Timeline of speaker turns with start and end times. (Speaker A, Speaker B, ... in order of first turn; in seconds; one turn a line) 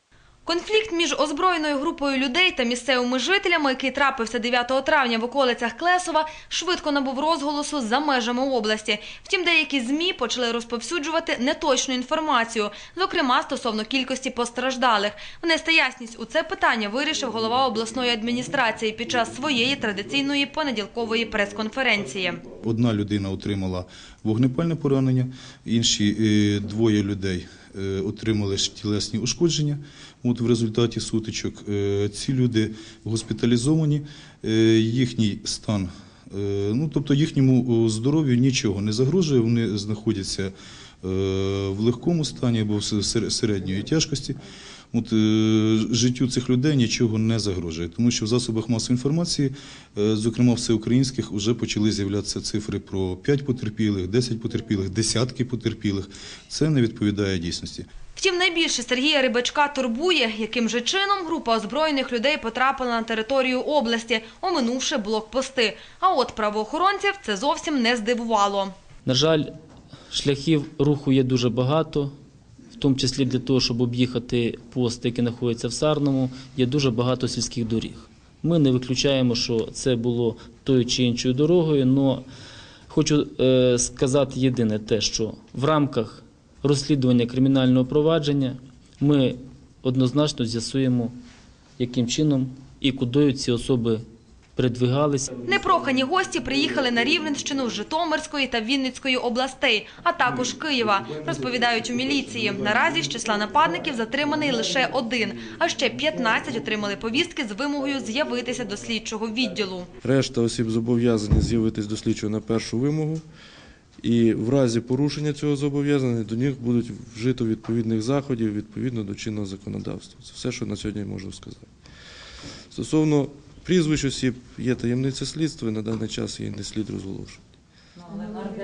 Speaker A: 0.5-22.4
Speaker B: 22.5-44.4
Speaker B: 44.9-57.9
Speaker A: 58.2-68.7
Speaker C: 69.1-69.5
Speaker C: 70.1-72.2
Speaker C: 72.8-82.3
Speaker C: 82.9-91.2
Speaker C: 91.8-94.0
Speaker C: 94.6-95.3
Speaker A: 95.5-109.9
Speaker D: 110.0-113.2
Speaker D: 114.0-121.7
Speaker D: 122.7-127.4